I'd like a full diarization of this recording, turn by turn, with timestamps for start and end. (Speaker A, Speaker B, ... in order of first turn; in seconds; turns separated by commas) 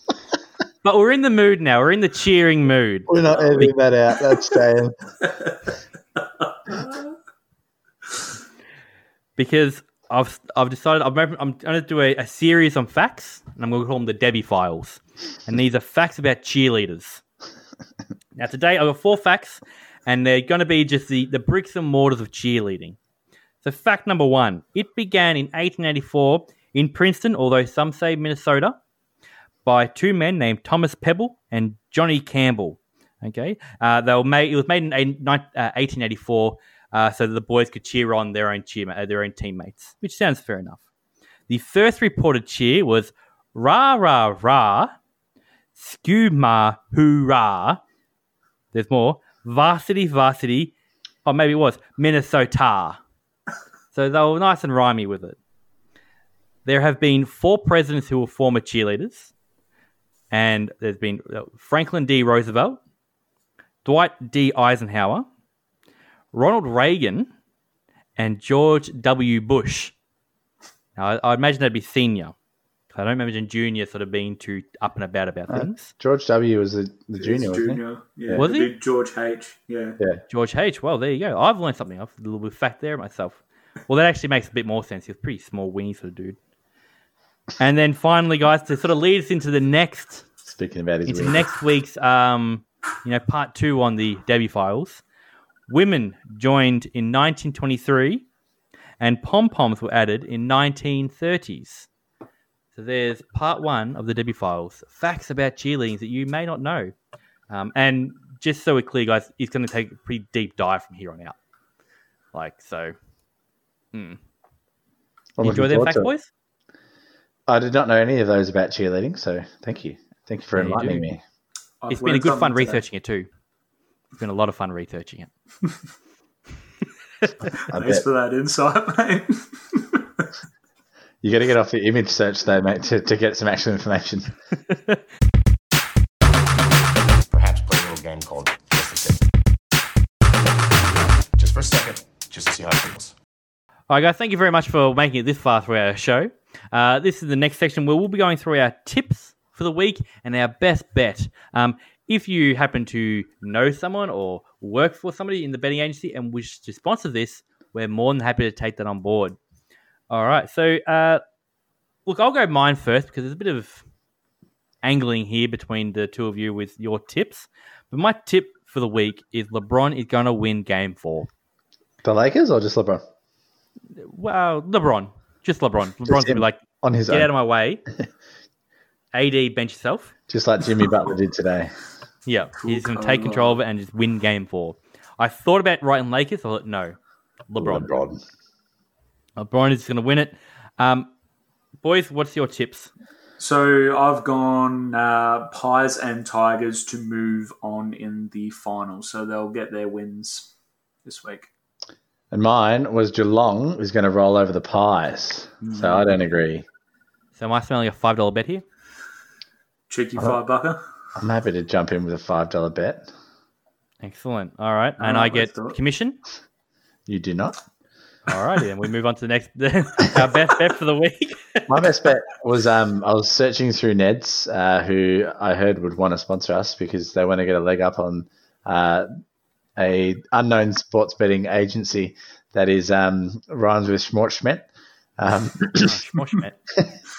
Speaker A: 0.8-3.7, Speaker B: 3.1-4.9, Speaker C: 3.3-3.6, Speaker C: 5.3-5.5, Speaker C: 6.7-7.1, Speaker A: 9.4-17.2, Speaker A: 18.4-23.0, Speaker A: 23.6-28.8, Speaker A: 29.6-40.8, Speaker A: 41.5-44.9, Speaker A: 45.8-47.8, Speaker A: 48.7-50.7, Speaker A: 51.2-53.0, Speaker A: 53.9-55.4, Speaker A: 56.6-59.3, Speaker A: 60.3-62.8, Speaker A: 63.8-65.2, Speaker A: 66.3-67.3, Speaker A: 68.2-69.9, Speaker A: 71.0-72.3, Speaker A: 72.9-75.9, Speaker B: 75.5-78.4, Speaker C: 77.2-80.0, Speaker A: 78.3-78.7, Speaker A: 80.3-86.4, Speaker A: 87.6-90.2, Speaker B: 90.5-91.5, Speaker A: 91.0-95.0, Speaker A: 95.7-98.2, Speaker A: 99.0-101.9, Speaker A: 102.7-106.9, Speaker A: 107.5-111.4, Speaker A: 112.3-112.9, Speaker A: 113.9-114.2, Speaker B: 115.4-116.1, Speaker A: 115.4-116.3, Speaker B: 117.5-121.2, Speaker A: 120.5-121.1, Speaker C: 121.8-122.8, Speaker A: 121.9-123.3, Speaker A: 124.2-125.3, Speaker B: 127.7-128.0, Speaker C: 127.7-130.3, Speaker B: 131.2-134.3, Speaker A: 134.7-135.0, Speaker D: 137.3-139.3, Speaker D: 140.9-143.1, Speaker A: 143.9-159.4, Speaker A: 160.1-161.2, Speaker A: 162.1-163.8, Speaker A: 164.8-171.3, Speaker B: 172.0-173.0, Speaker A: 174.0-177.8, Speaker B: 176.0-177.3, Speaker A: 179.1-180.1, Speaker B: 180.3-181.7, Speaker A: 182.2-186.9, Speaker C: 182.6-183.6, Speaker A: 187.5-187.9, Speaker B: 187.6-188.2, Speaker A: 189.4-191.1, Speaker A: 191.8-192.9, Speaker C: 193.4-200.5, Speaker C: 201.0-201.5, Speaker B: 202.3-206.7, Speaker C: 205.6-206.2, Speaker A: 207.3-208.6, Speaker C: 209.9-210.8, Speaker B: 211.2-213.1, Speaker A: 214.0-216.2, Speaker C: 215.0-215.8, Speaker B: 217.1-217.6, Speaker A: 218.2-221.6, Speaker B: 221.7-229.1, Speaker B: 229.8-234.7, Speaker B: 235.2-235.9, Speaker A: 235.8-236.6